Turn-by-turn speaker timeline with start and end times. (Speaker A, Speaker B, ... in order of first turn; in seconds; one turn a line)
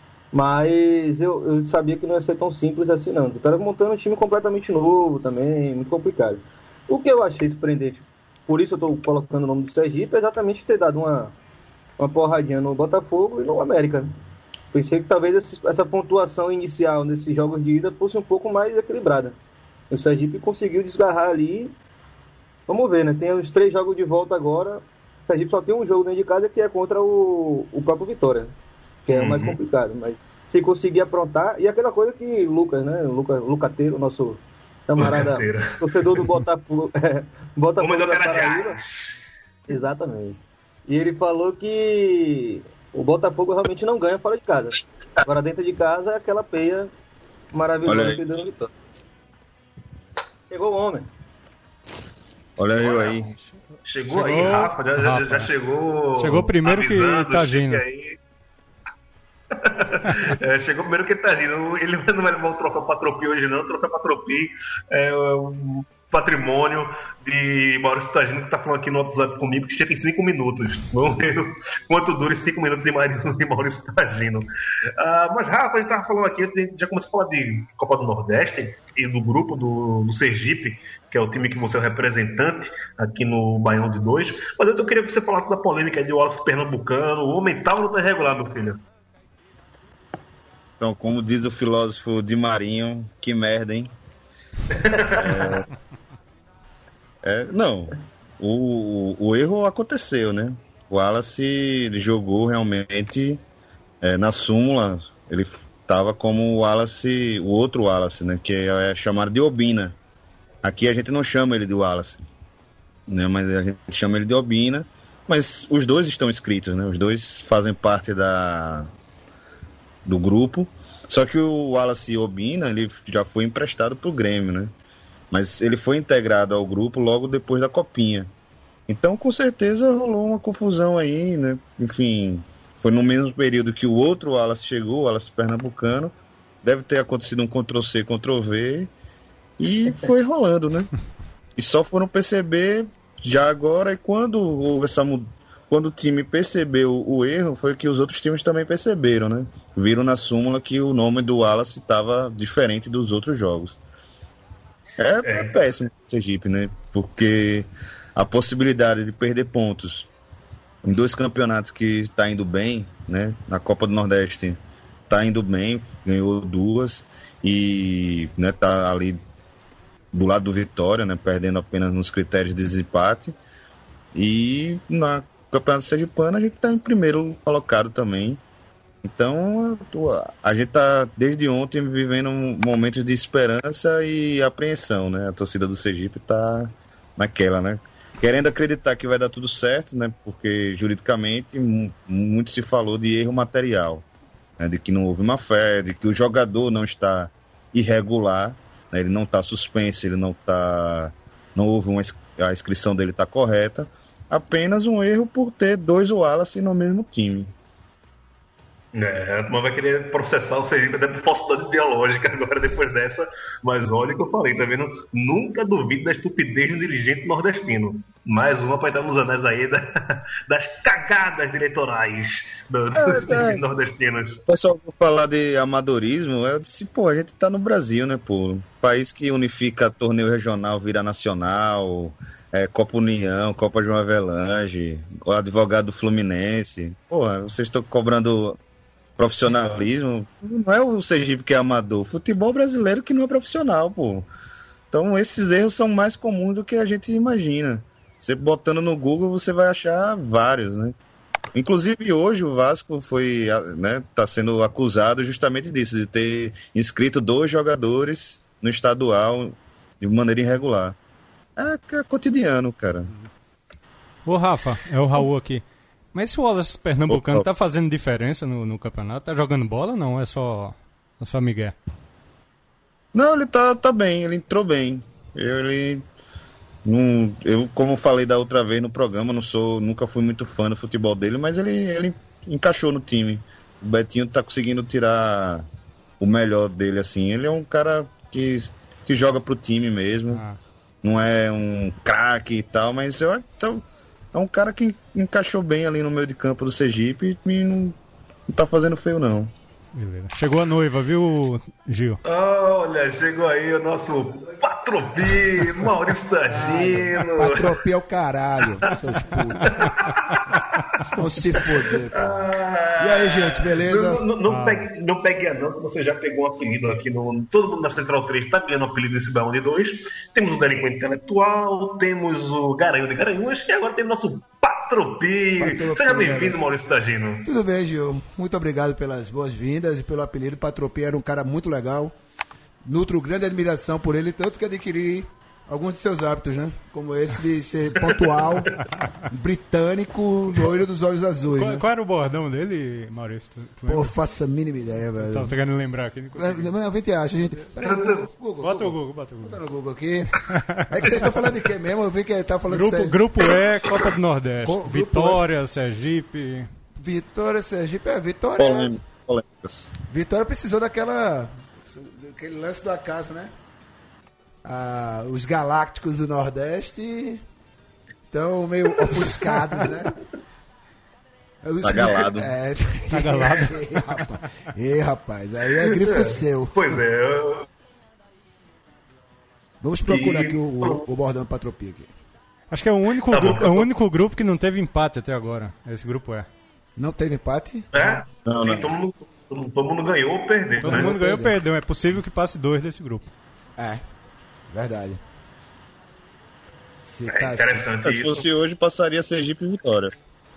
Speaker A: 0.3-11.3
Speaker A: 12.0-14.1
Speaker A: 14.7-19.4
Speaker A: 19.9-21.7
Speaker A: 22.7-28.5
Speaker A: 29.1-38.8
Speaker B: 29.1-29.6
Speaker B: 35.0-36.4
Speaker B: 37.8-39.2
Speaker A: 39.7-46.9
Speaker A: 47.5-48.7
Speaker C: 47.9-48.2
Speaker A: 50.5-51.1
Speaker C: 52.6-53.3
Speaker B: 52.8-53.3
Speaker B: 53.8-58.2
Speaker D: 54.1-55.5
Speaker D: 56.1-57.8
Speaker B: 59.5-88.8
Speaker C: 90.8-93.9
Speaker B: 94.8-95.5
Speaker C: 94.9-95.7
Speaker C: 97.2-103.4
Speaker C: 104.0-110.0
Speaker C: 110.6-112.2
Speaker C: 113.1-118.9
Speaker C: 120.0-124.7
Speaker C: 125.3-128.3
Speaker C: 128.9-138.9
Speaker C: 139.6-140.9
Speaker C: 141.6-153.8
Speaker C: 155.0-160.1
Speaker B: 155.2-155.6
Speaker C: 160.8-164.6
Speaker C: 165.1-169.2
Speaker C: 170.1-173.3
Speaker C: 174.1-178.4
Speaker C: 179.0-194.1
Speaker C: 194.6-207.5
Speaker B: 208.9-224.4
Speaker C: 223.0-223.6
Speaker C: 224.5-238.6
Speaker C: 239.2-244.3
Speaker C: 244.9-250.9
Speaker C: 251.5-260.9
Speaker C: 261.6-263.1
Speaker D: 264.2-271.7
Speaker C: 267.1-267.5
Speaker C: 273.1-276.0
Speaker C: 276.8-285.7
Speaker C: 286.2-290.4
Speaker D: 290.3-290.6
Speaker C: 291.0-297.9
Speaker C: 298.5-299.5
Speaker D: 299.9-302.2
Speaker B: 302.2-307.8
Speaker E: 306.5-309.9
Speaker B: 309.6-311.2
Speaker E: 311.1-312.4
Speaker B: 312.1-327.4
Speaker E: 313.0-314.2
Speaker D: 314.4-314.9
Speaker E: 325.6-326.6
Speaker E: 327.4-332.1
Speaker E: 332.8-341.8
Speaker B: 338.0-338.8
Speaker D: 341.5-344.1
Speaker E: 343.9-345.6
Speaker D: 345.3-346.7
Speaker E: 346.4-353.2
Speaker B: 347.8-348.3
Speaker D: 348.6-349.6
Speaker D: 350.5-351.2
Speaker D: 352.7-356.7
Speaker E: 354.6-355.4
Speaker E: 357.0-358.9
Speaker C: 358.6-359.9
Speaker E: 360.1-363.5
Speaker E: 364.6-367.4
Speaker E: 368.3-370.2
Speaker B: 369.0-369.7
Speaker E: 371.6-376.9
Speaker C: 371.8-372.5
Speaker D: 373.1-373.8
Speaker B: 375.8-377.6
Speaker E: 379.8-382.1
Speaker B: 380.1-381.1
Speaker D: 382.7-386.5
Speaker B: 383.3-383.9
Speaker E: 386.9-387.9
Speaker B: 387.9-391.2
Speaker C: 388.4-388.9
Speaker D: 390.8-393.3
Speaker E: 390.8-391.6
Speaker E: 393.8-394.0
Speaker E: 394.7-395.2
Speaker E: 397.0-397.9
Speaker B: 397.3-398.5
Speaker C: 398.0-400.1